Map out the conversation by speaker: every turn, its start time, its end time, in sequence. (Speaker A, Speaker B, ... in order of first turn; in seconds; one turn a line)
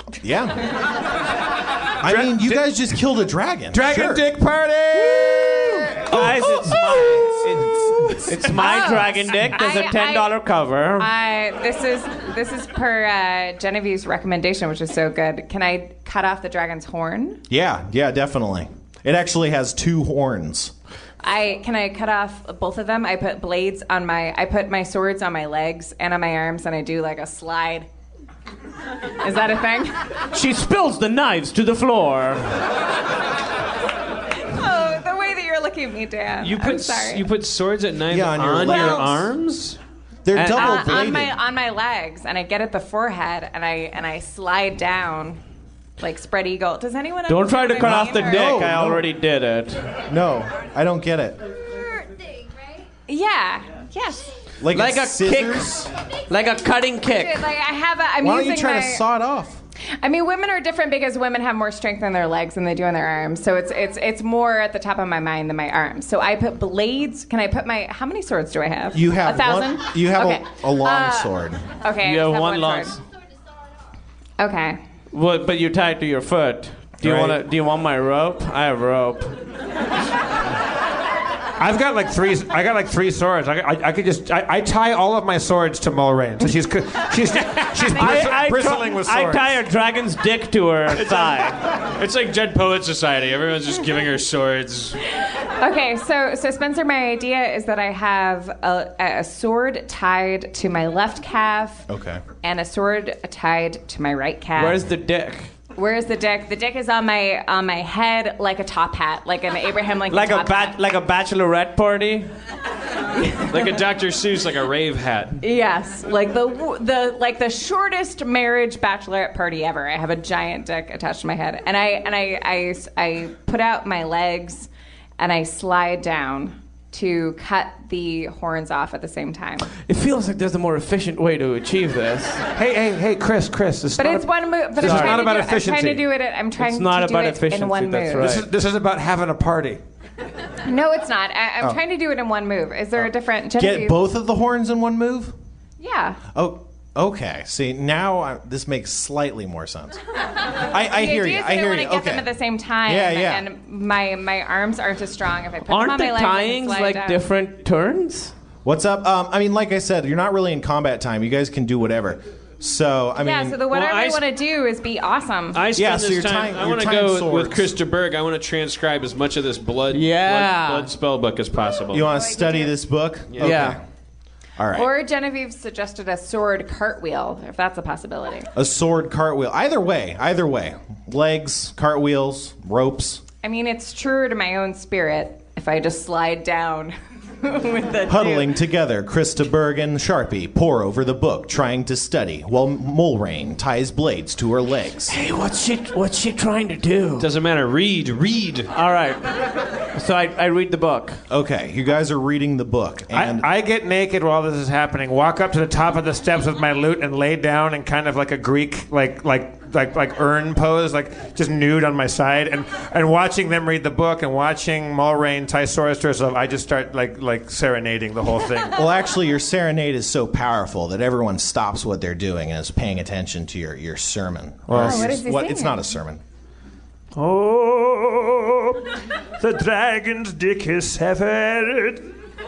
Speaker A: 0.2-0.6
Speaker B: 2.0-2.8
Speaker A: 2.0-4.3
Speaker B: 3.7-7.1
Speaker C: 6.0-7.7
Speaker A: 7.8-8.2
Speaker C: 8.3-11.1
Speaker D: 8.4-10.4
Speaker D: 11.0-17.4
Speaker A: 17.5-20.7
Speaker D: 21.2-27.9
Speaker D: 29.2-30.0
Speaker C: 30.3-32.6
Speaker D: 34.5-37.2
Speaker E: 36.4-39.8
Speaker A: 38.1-39.3
Speaker A: 40.2-41.4
Speaker C: 40.3-41.1
Speaker D: 40.5-45.4
Speaker D: 46.0-48.6
Speaker C: 47.3-50.0
Speaker A: 47.8-49.0
Speaker A: 50.1-51.4
Speaker D: 53.1-54.3
Speaker A: 54.6-55.9
Speaker C: 54.7-55.7
Speaker C: 56.3-57.5
Speaker D: 57.1-59.0
Speaker A: 58.2-59.6
Speaker D: 60.0-73.0
Speaker A: 68.9-71.7
Speaker C: 72.0-73.0
Speaker D: 74.4-74.8
Speaker C: 75.1-79.4
Speaker A: 77.0-77.4
Speaker B: 81.6-89.6
Speaker D: 87.9-88.2
Speaker C: 87.9-91.6
Speaker E: 90.9-95.0
Speaker D: 95.6-101.8
Speaker A: 101.9-102.2
Speaker D: 102.4-104.8
Speaker C: 104.5-105.5
Speaker D: 105.7-110.8
Speaker C: 110.1-112.3
Speaker E: 113.5-115.4
Speaker D: 115.4-129.7
Speaker C: 129.7-132.4
Speaker B: 132.6-136.0
Speaker D: 134.0-138.3
Speaker C: 134.8-135.2
Speaker C: 136.6-138.5
Speaker B: 138.2-139.8
Speaker D: 140.6-144.0
Speaker A: 142.9-145.3
Speaker D: 145.8-146.2
Speaker A: 146.3-150.0
Speaker A: 150.7-152.3
Speaker D: 150.8-157.2
Speaker A: 152.8-153.4
Speaker C: 155.7-158.3
Speaker A: 158.6-163.7
Speaker D: 163.2-165.6
Speaker E: 163.7-164.2
Speaker E: 165.5-172.1
Speaker A: 165.7-167.7
Speaker C: 169.9-170.9
Speaker A: 171.9-173.8
Speaker D: 172.0-172.8
Speaker E: 173.3-173.5
Speaker C: 173.4-173.8
Speaker A: 174.6-174.9
Speaker D: 174.7-178.5
Speaker A: 178.5-183.2
Speaker D: 183.4-188.6
Speaker A: 188.1-195.1
Speaker C: 195.1-197.3
Speaker E: 197.2-198.7
Speaker C: 198.7-199.3
Speaker C: 199.9-201.2
Speaker A: 201.3-203.4
Speaker B: 203.1-218.8
Speaker A: 218.8-226.2
Speaker B: 224.7-225.2
Speaker D: 224.7-225.8
Speaker B: 227.2-232.1